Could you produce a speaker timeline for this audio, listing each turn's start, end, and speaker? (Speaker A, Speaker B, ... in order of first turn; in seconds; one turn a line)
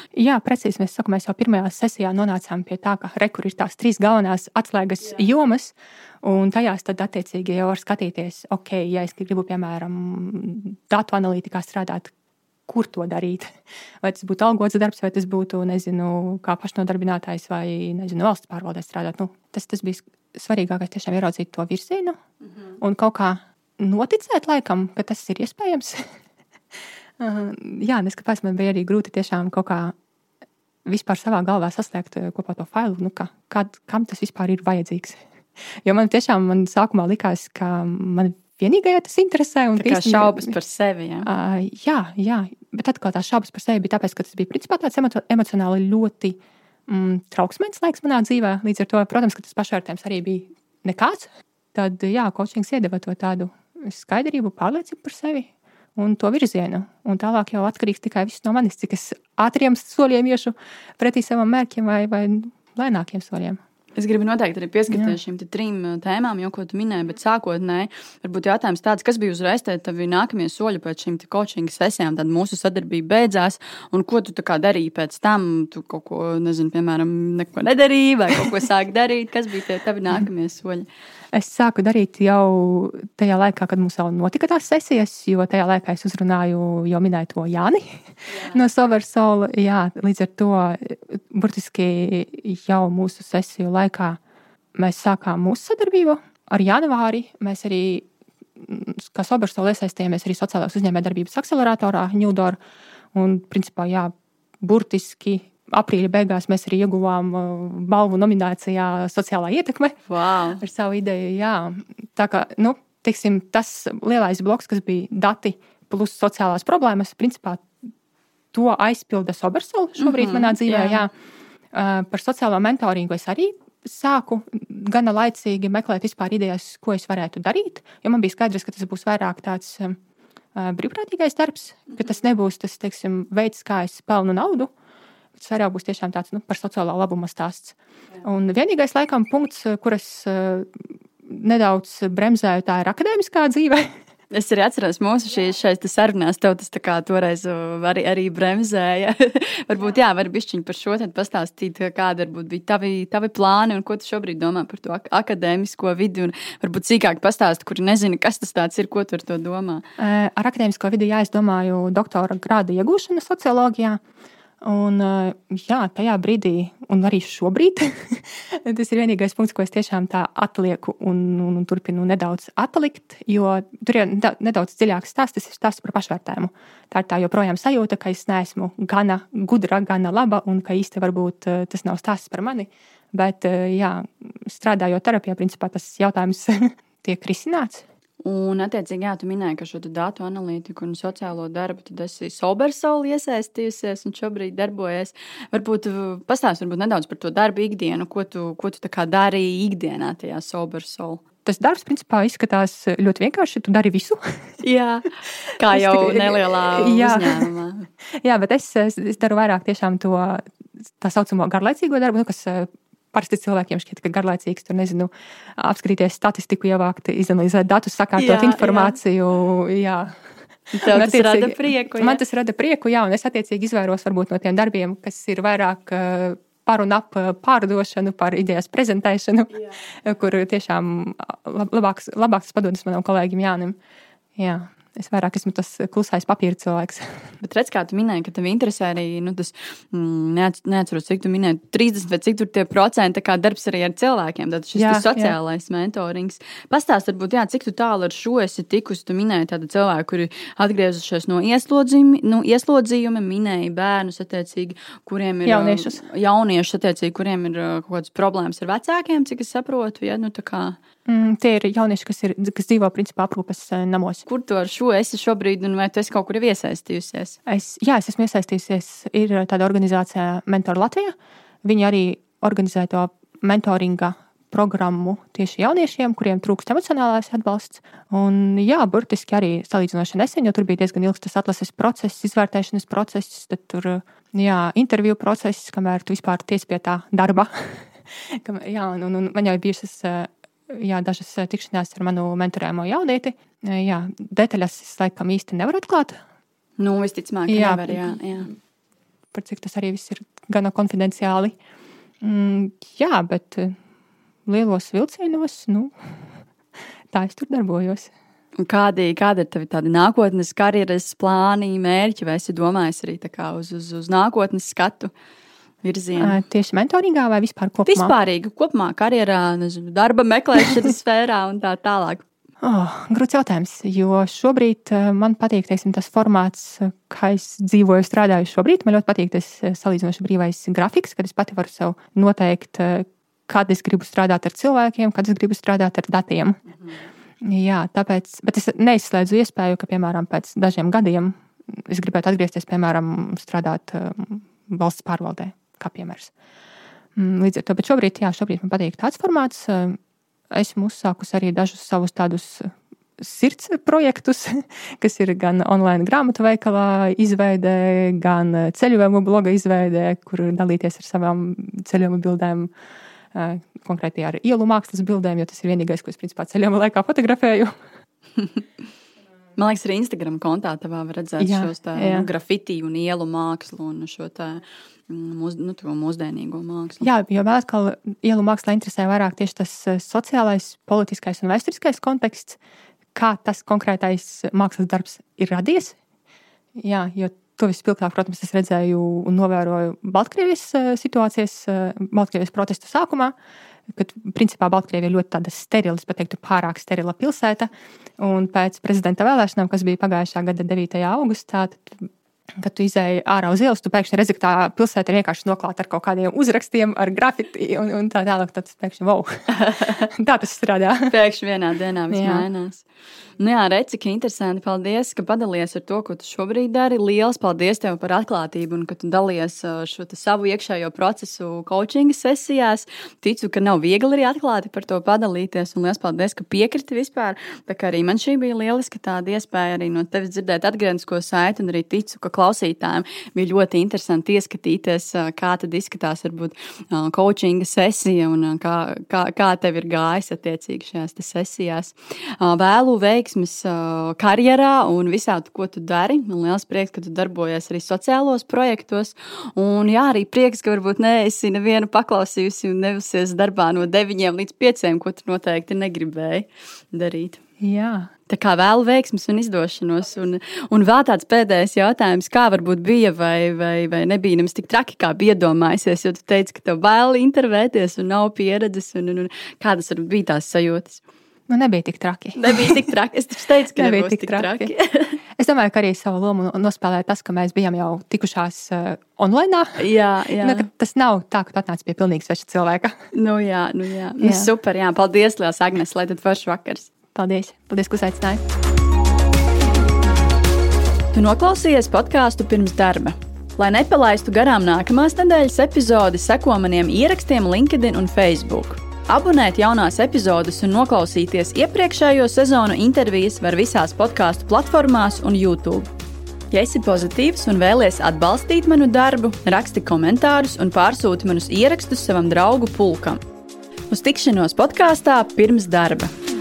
Speaker A: 0.1-12.1
Speaker A: 12.7-13.5
Speaker A: 14.0-22.2
Speaker A: 22.8-26.1
Speaker A: 27.2-29.9
Speaker A: 30.9-35.2
Speaker A: 35.8-40.5
Speaker B: 39.8-41.3
Speaker A: 41.2-63.6
Speaker B: 64.0-80.9
Speaker A: 81.3-94.2
Speaker B: 88.3-88.6
Speaker A: 94.8-102.6
Speaker A: 103.1-110.0
Speaker B: 110.1-110.6
Speaker A: 110.6-117.7
Speaker A: 118.5-121.1
Speaker B: 120.0-121.1
Speaker A: 121.7-130.0
Speaker A: 130.6-134.7
Speaker A: 135.4-143.9
Speaker B: 144.3-159.8
Speaker A: 160.0-164.0
Speaker A: 164.6-187.8
Speaker B: 188.2-201.2
Speaker A: 201.4-204.2
Speaker B: 204.6-207.9
Speaker A: 205.7-207.5
Speaker A: 208.2-220.1
Speaker B: 218.2-219.0
Speaker B: 220.7-222.2
Speaker A: 220.8-233.8
Speaker A: 234.4-237.2
Speaker B: 237.4-260.8
Speaker A: 244.8-245.3
Speaker A: 255.5-256.0
Speaker A: 261.1-264.2
Speaker B: 264.3-267.4
Speaker A: 267.5-296.2
Speaker B: 296.8-298.5
Speaker A: 297.5-298.2
Speaker A: 299.3-301.6
Speaker A: 302.2-303.8
Speaker A: 304.5-305.9
Speaker A: 307.1-308.1
Speaker B: 308.6-315.1
Speaker B: 315.8-316.4
Speaker A: 316.2-318.1
Speaker B: 317.9-322.2
Speaker A: 322.6-336.6
Speaker A: 337.4-346.3
Speaker A: 347.2-350.0
Speaker A: 350.5-362.7
Speaker A: 363.3-367.7
Speaker B: 369.6-377.1
Speaker A: 371.4-372.3
Speaker A: 377.0-382.6
Speaker A: 383.1-386.0
Speaker A: 386.8-393.3
Speaker A: 393.9-409.3
Speaker B: 409.5-410.1
Speaker A: 410.0-411.1
Speaker B: 411.1-412.8
Speaker A: 412.1-412.5
Speaker B: 413.4-457.4
Speaker A: 457.6-458.1
Speaker B: 458.3-471.0
Speaker A: 471.5-472.8
Speaker B: 472.4-475.2
Speaker A: 473.8-474.7
Speaker A: 475.4-479.8
Speaker B: 479.8-480.7
Speaker A: 480.4-483.0
Speaker B: 483.1-486.9
Speaker A: 484.2-484.5
Speaker A: 487.1-488.4
Speaker B: 491.1-505.9
Speaker B: 506.5-513.2
Speaker B: 513.9-516.1